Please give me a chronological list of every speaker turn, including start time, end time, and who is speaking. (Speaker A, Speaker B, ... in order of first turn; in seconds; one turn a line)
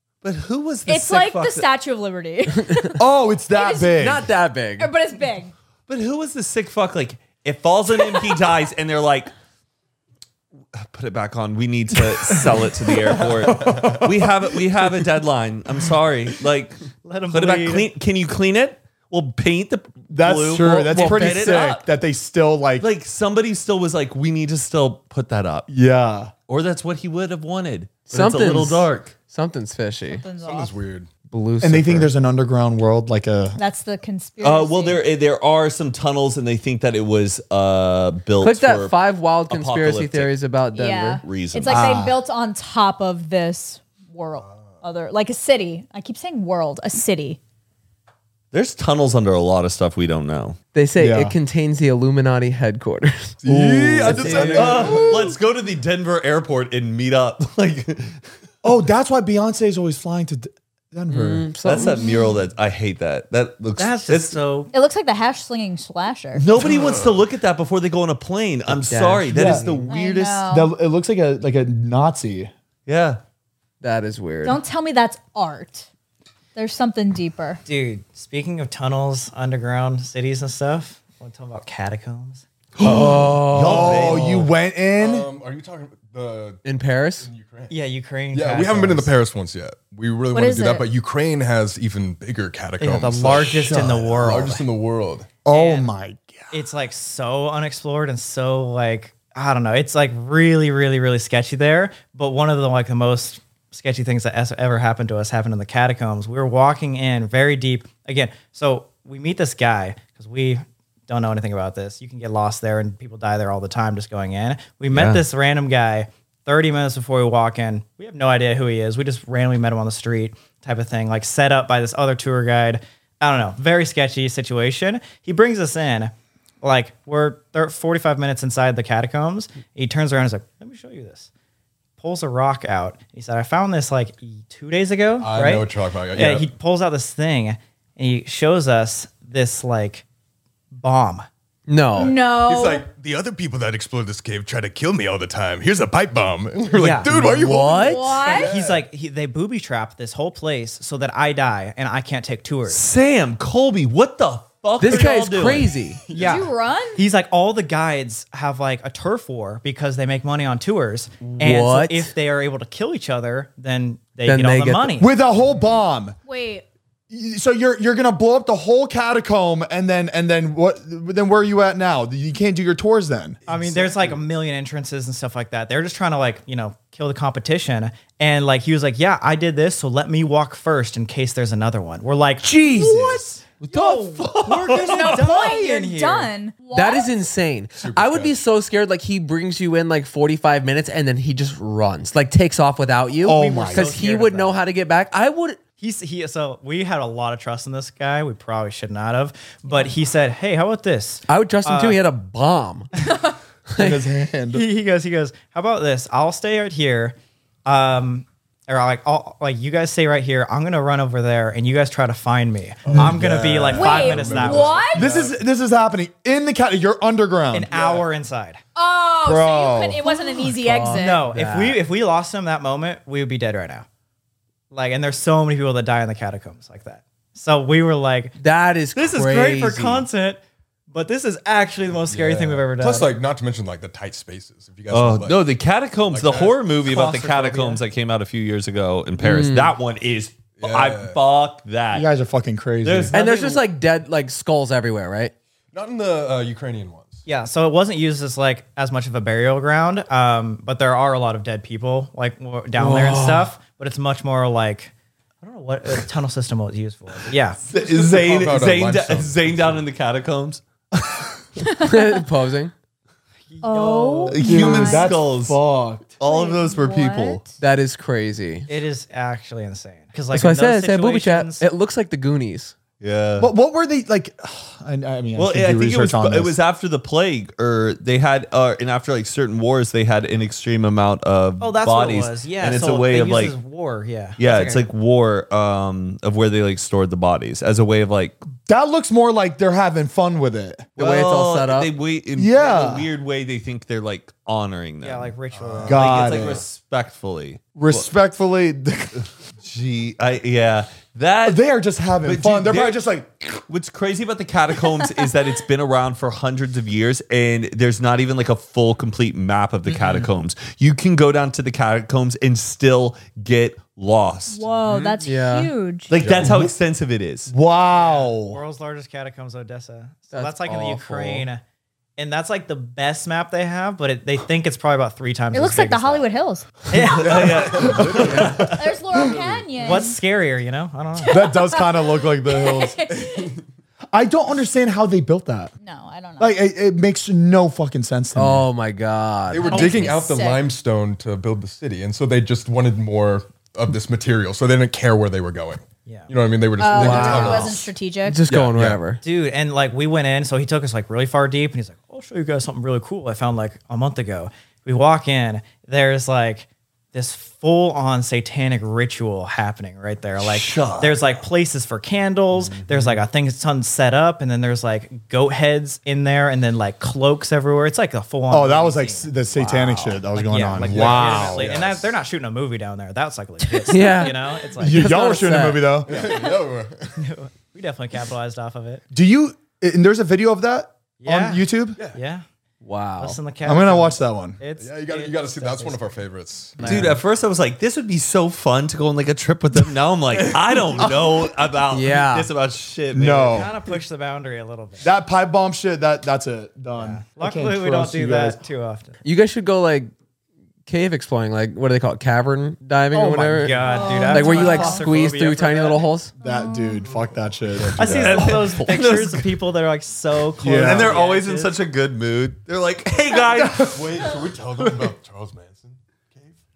Speaker A: 0.2-1.7
Speaker B: 0.9-3.0
Speaker C: 2.5-2.9
Speaker D: 3.0-4.3
Speaker B: 3.5-4.1
Speaker C: 4.0-4.9
Speaker B: 4.8-5.5
Speaker A: 5.9-9.3
Speaker A: 10.7-16.8
Speaker D: 13.5-14.1
Speaker E: 13.5-14.1
Speaker F: 17.0-17.9
Speaker A: 17.3-21.9
Speaker D: 20.1-22.9
Speaker C: 20.9-21.7
Speaker A: 22.8-25.7
Speaker D: 25.7-26.3
Speaker A: 26.5-29.1
Speaker C: 28.1-30.2
Speaker B: 30.1-30.8
Speaker E: 30.4-31.1
Speaker C: 31.3-32.1
Speaker D: 31.6-33.6
Speaker B: 33.5-35.0
Speaker A: 34.4-39.0
Speaker C: 38.4-41.2
Speaker A: 39.5-40.3
Speaker B: 40.7-47.4
Speaker A: 41.2-42.0
Speaker D: 41.7-42.2
Speaker E: 44.4-44.8
Speaker A: 48.5-50.6
Speaker C: 50.7-54.6
Speaker D: 51.0-51.3
Speaker E: 53.4-55.1
Speaker F: 54.0-55.0
Speaker D: 54.4-55.3
Speaker A: 54.5-58.2
Speaker D: 58.6-61.7
Speaker C: 61.1-62.1
Speaker A: 61.6-64.4
Speaker B: 61.8-62.4
Speaker F: 63.8-64.7
Speaker B: 64.7-66.4
Speaker A: 66.4-70.5
Speaker E: 66.7-67.1
Speaker C: 68.7-69.8
Speaker D: 69.3-69.7
Speaker B: 69.9-70.7
Speaker D: 70.5-72.5
Speaker A: 72.9-73.2
Speaker C: 73.8-74.6
Speaker B: 74.4-75.9
Speaker B: 76.5-77.6
Speaker F: 77.7-82.5
Speaker C: 82.8-84.0
Speaker D: 82.8-85.3
Speaker A: 82.9-84.5
Speaker E: 83.6-84.4
Speaker E: 85.0-86.6
Speaker C: 86.6-87.3
Speaker E: 87.2-87.7
Speaker F: 87.7-89.1
Speaker E: 88.3-95.3
Speaker B: 90.3-90.9
Speaker F: 92.8-94.6
Speaker D: 95.5-96.5
Speaker F: 95.5-95.9
Speaker F: 96.5-131.3
Speaker A: 114.9-115.2
Speaker F: 132.0-140.0
Speaker E: 135.2-136.5
Speaker F: 140.7-141.3
Speaker C: 141.7-142.1
Speaker B: 141.9-142.9
Speaker E: 142.0-148.8
Speaker F: 146.7-147.1
Speaker C: 147.1-148.2
Speaker B: 147.8-148.5
Speaker F: 148.2-152.8
Speaker A: 152.7-155.7
Speaker C: 154.8-156.0
Speaker E: 156.1-156.5
Speaker F: 156.1-165.1
Speaker B: 156.2-157.0
Speaker C: 161.2-162.1
Speaker C: 164.2-164.9
Speaker D: 165.0-166.2
Speaker B: 166.3-166.6
Speaker D: 167.1-173.4
Speaker E: 173.4-174.2
Speaker F: 173.5-186.3
Speaker D: 182.4-183.3
Speaker A: 183.6-185.1
Speaker B: 184.8-187.1
Speaker C: 186.7-195.6
Speaker E: 187.8-188.4
Speaker D: 193.2-193.9
Speaker F: 193.3-194.6
Speaker F: 195.8-202.0
Speaker B: 199.7-199.9
Speaker C: 201.3-202.9
Speaker C: 203.7-204.1
Speaker D: 203.8-204.6
Speaker F: 204.5-215.3
Speaker E: 212.9-215.3
Speaker D: 212.9-213.2
Speaker B: 213.7-215.0
Speaker D: 214.9-217.7
Speaker F: 217.5-218.6
Speaker E: 217.7-218.1
Speaker B: 218.7-221.2
Speaker D: 219.2-220.5
Speaker C: 220.5-221.8
Speaker F: 220.9-223.9
Speaker F: 224.7-228.4
Speaker C: 228.4-230.1
Speaker F: 228.9-233.1
Speaker E: 232.1-235.4
Speaker A: 234.9-242.1
Speaker E: 236.1-236.7
Speaker F: 236.9-237.8
Speaker C: 239.2-239.7
Speaker E: 240.6-241.2
Speaker D: 241.9-243.1
Speaker A: 242.8-243.7
Speaker C: 243.1-245.3
Speaker E: 245.7-247.2
Speaker F: 247.3-257.6
Speaker C: 252.8-253.5
Speaker E: 257.7-259.8
Speaker A: 257.7-261.2
Speaker C: 261.8-262.7
Speaker F: 263.5-264.4
Speaker B: 263.6-265.1
Speaker A: 264.3-265.6
Speaker D: 264.4-266.1
Speaker A: 266.2-267.5
Speaker B: 266.2-267.4
Speaker C: 267.6-268.7
Speaker F: 268.7-271.6
Speaker C: 270.3-272.8
Speaker A: 273.0-273.5
Speaker D: 273.4-276.6
Speaker A: 275.4-283.5
Speaker F: 281.6-284.9
Speaker A: 284.4-288.4
Speaker D: 288.7-290.9
Speaker A: 291.0-295.3
Speaker C: 291.0-291.9
Speaker D: 292.4-293.1
Speaker F: 295.0-296.4
Speaker E: 295.5-296.6
Speaker D: 295.9-296.6
Speaker A: 295.9-298.1
Speaker D: 297.8-299.3
Speaker A: 299.6-301.6
Speaker D: 301.5-303.6
Speaker A: 302.2-303.0
Speaker A: 303.7-314.6
Speaker B: 314.5-316.1
Speaker C: 315.2-315.7
Speaker A: 316.1-317.5
Speaker E: 316.2-316.6
Speaker D: 316.4-316.7
Speaker D: 317.5-318.6
Speaker F: 317.9-321.6
Speaker C: 320.3-321.5
Speaker F: 322.2-326.2
Speaker B: 325.5-326.7
Speaker F: 326.9-328.6
Speaker A: 327.0-328.8
Speaker E: 327.2-330.0
Speaker B: 328.6-330.2
Speaker F: 329.8-331.5
Speaker B: 331.2-333.6
Speaker D: 331.3-333.1
Speaker E: 333.1-333.6
Speaker D: 334.1-335.7
Speaker B: 335.8-336.5
Speaker D: 336.4-338.7
Speaker C: 338.4-339.7
Speaker E: 339.5-347.9
Speaker B: 339.6-340.7
Speaker F: 339.7-340.1
Speaker B: 346.8-348.4
Speaker C: 346.9-347.6
Speaker C: 348.2-349.2
Speaker E: 348.5-349.0
Speaker F: 349.2-369.3
Speaker A: 360.4-361.4
Speaker E: 362.6-363.2
Speaker D: 368.5-371.7
Speaker C: 369.5-370.2
Speaker F: 370.3-375.2
Speaker E: 370.8-372.1
Speaker C: 373.9-376.0
Speaker D: 374.8-376.5
Speaker E: 376.0-377.2
Speaker F: 377.2-379.0
Speaker D: 379.1-382.0
Speaker F: 381.2-382.4
Speaker C: 382.8-383.4
Speaker F: 383.2-386.0
Speaker D: 383.7-384.6
Speaker E: 384.8-387.0
Speaker F: 386.8-387.2
Speaker C: 386.8-387.1
Speaker A: 386.8-393.7
Speaker C: 391.9-392.5
Speaker D: 393.1-393.7
Speaker F: 393.5-395.1
Speaker D: 395.0-398.6
Speaker F: 397.0-399.2
Speaker C: 399.2-400.1
Speaker C: 400.9-406.3
Speaker F: 403.1-406.0
Speaker B: 403.8-405.0
Speaker D: 406.4-408.5
Speaker B: 406.4-407.0
Speaker E: 407.0-408.5
Speaker F: 408.0-411.8
Speaker A: 408.2-409.6
Speaker A: 410.6-414.1
Speaker D: 410.6-411.2
Speaker D: 413.5-415.1
Speaker E: 413.8-416.6